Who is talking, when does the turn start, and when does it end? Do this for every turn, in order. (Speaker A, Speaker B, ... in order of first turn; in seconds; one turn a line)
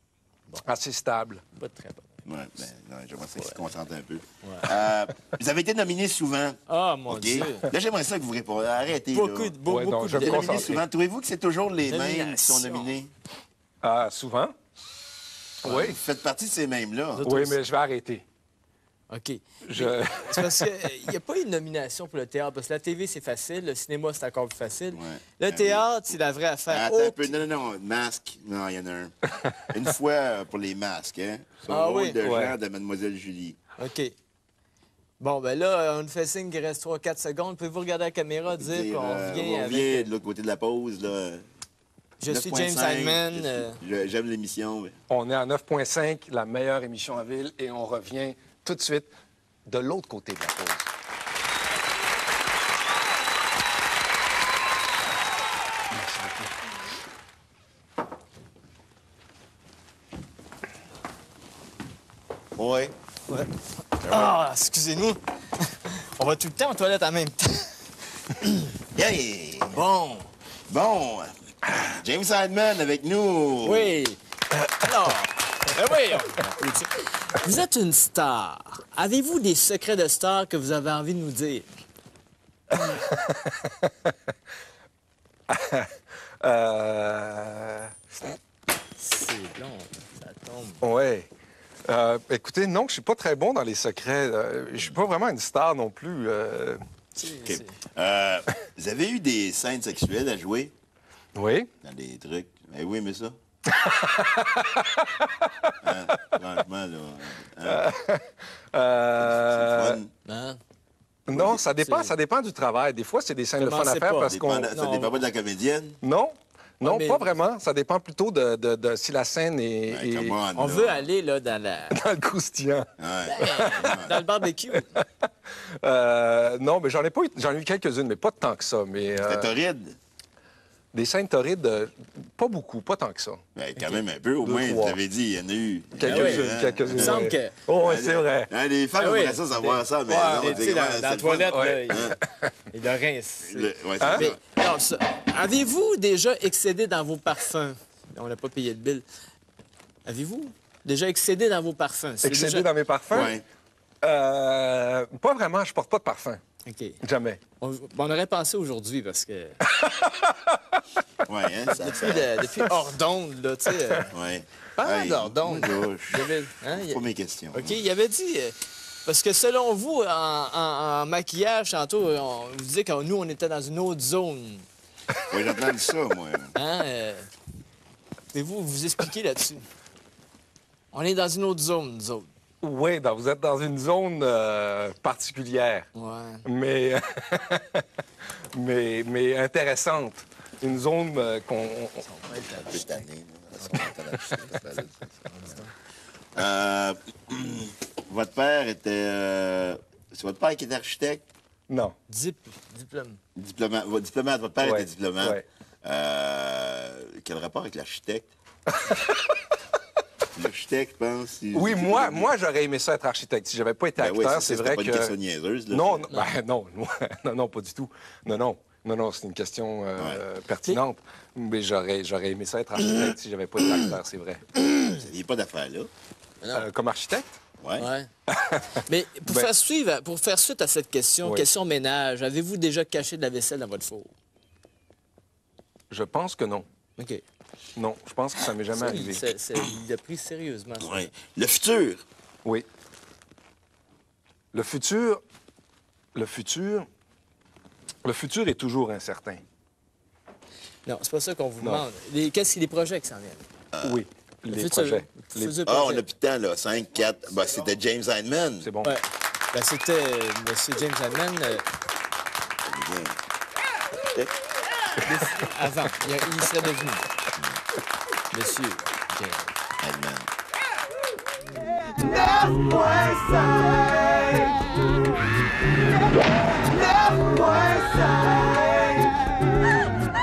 Speaker A: 0.6-1.4
Speaker B: 1.6-2.2
Speaker C: 2.2-9.6
Speaker B: 4.4-4.7
Speaker B: 6.7-7.7
Speaker B: 9.1-10.8
Speaker A: 9.7-10.8
Speaker C: 10.1-13.1
Speaker B: 11.8-13.0
Speaker A: 13.8-14.5
Speaker A: 15.6-16.0
Speaker C: 15.6-17.2
Speaker B: 17.1-17.6
Speaker A: 17.2-18.2
Speaker B: 19.1-27.4
Speaker A: 19.6-20.7
Speaker C: 24.9-25.9
Speaker C: 26.7-33.6
Speaker B: 31.7-32.2
Speaker A: 32.2-32.5
Speaker B: 33.8-34.1
Speaker B: 35.2-40.1
Speaker C: 38.5-41.4
Speaker B: 42.2-43.8
Speaker C: 42.3-44.9
Speaker A: 45.1-49.1
Speaker A: 49.7-50.9
Speaker A: 55.9-56.5
Speaker C: 62.6-62.9
Speaker B: 63.3-67.9
Speaker B: 68.4-68.7
Speaker C: 69.0-69.8
Speaker B: 69.7-70.3
Speaker C: 70.7-74.0
Speaker B: 73.6-74.2
Speaker B: 74.8-81.7
Speaker A: 82.7-84.1
Speaker A: 85.5-85.9
Speaker A: 86.4-87.9
Speaker B: 89.0-90.8
Speaker A: 90.8-91.3
Speaker A: 91.9-96.8
Speaker B: 97.2-97.8
Speaker C: 97.4-100.7
Speaker A: 101.3-101.7
Speaker C: 101.8-103.4
Speaker A: 103.7-105.7
Speaker C: 105.8-107.9
Speaker A: 107.7-110.0
Speaker C: 109.2-110.1
Speaker B: 110.2-110.6
Speaker A: 111.3-114.7
Speaker C: 111.3-111.6
Speaker B: 111.7-112.1
Speaker B: 113.6-115.2
Speaker C: 114.2-116.0
Speaker A: 116.0-120.4
Speaker B: 116.8-117.4
Speaker C: 119.9-121.1
Speaker B: 120.5-122.0
Speaker A: 121.9-122.9
Speaker C: 123.0-124.1
Speaker B: 123.3-125.0
Speaker A: 123.4-124.0
Speaker A: 125.8-129.5
Speaker C: 129.2-130.0
Speaker A: 130.9-133.4
Speaker C: 133.6-142.2
Speaker A: 134.4-135.0
Speaker A: 136.0-138.5
Speaker B: 136.1-137.6
Speaker B: 139.0-142.2
Speaker A: 140.1-140.7
Speaker A: 141.5-142.6
Speaker B: 142.7-149.0
Speaker C: 143.4-144.4
Speaker A: 144.0-144.3
Speaker B: 150.1-152.7
Speaker A: 152.2-153.3
Speaker C: 153.1-153.4
Speaker A: 154.0-156.4
Speaker B: 156.7-157.0
Speaker A: 157.0-157.4
Speaker B: 157.6-159.6
Speaker A: 159.7-160.8
Speaker C: 161.3-162.4
Speaker B: 161.7-164.1
Speaker C: 164.1-167.8
Speaker B: 164.8-167.0
Speaker B: 167.5-174.7
Speaker C: 175.3-176.5
Speaker B: 176.6-177.3
Speaker B: 178.3-179.7
Speaker B: 180.9-182.3
Speaker A: 182.6-185.9
Speaker B: 185.9-186.5
Speaker A: 186.4-187.8
Speaker A: 188.6-192.0
Speaker B: 192.1-193.1
Speaker C: 192.3-195.0
Speaker B: 193.6-194.6
Speaker B: 195.3-195.7
Speaker C: 196.3-201.2
Speaker A: 201.7-202.0
Speaker B: 202.1-203.2
Speaker C: 203.4-208.3
Speaker A: 204.6-205.4
Speaker A: 208.8-209.3
Speaker C: 210.3-212.3
Speaker A: 211.5-215.2
Speaker C: 214.0-216.1
Speaker A: 215.7-224.4
Speaker B: 216.1-216.4
Speaker C: 220.0-220.2
Speaker C: 224.9-225.9
Speaker B: 226.4-226.7
Speaker A: 226.5-227.4
Speaker C: 227.6-227.9
Speaker B: 227.8-228.1
Speaker A: 228.3-229.5
Speaker B: 228.9-234.1
Speaker A: 235.9-236.7
Speaker A: 237.8-239.2
Speaker B: 238.7-241.1
Speaker C: 240.8-242.1
Speaker A: 244.5-245.2
Speaker A: 246.2-246.9
Speaker A: 248.1-249.4
Speaker B: 250.9-253.5
Speaker C: 253.7-254.0
Speaker A: 253.8-255.5
Speaker B: 254.5-256.1
Speaker C: 255.6-258.7
Speaker A: 258.6-258.9
Speaker B: 258.8-261.7
Speaker C: 262.6-263.2
Speaker C: 264.1-264.3
Speaker B: 265.0-267.1
Speaker B: 268.3-269.5
Speaker C: 269.8-270.3
Speaker B: 271.8-275.0
Speaker B: 276.3-279.4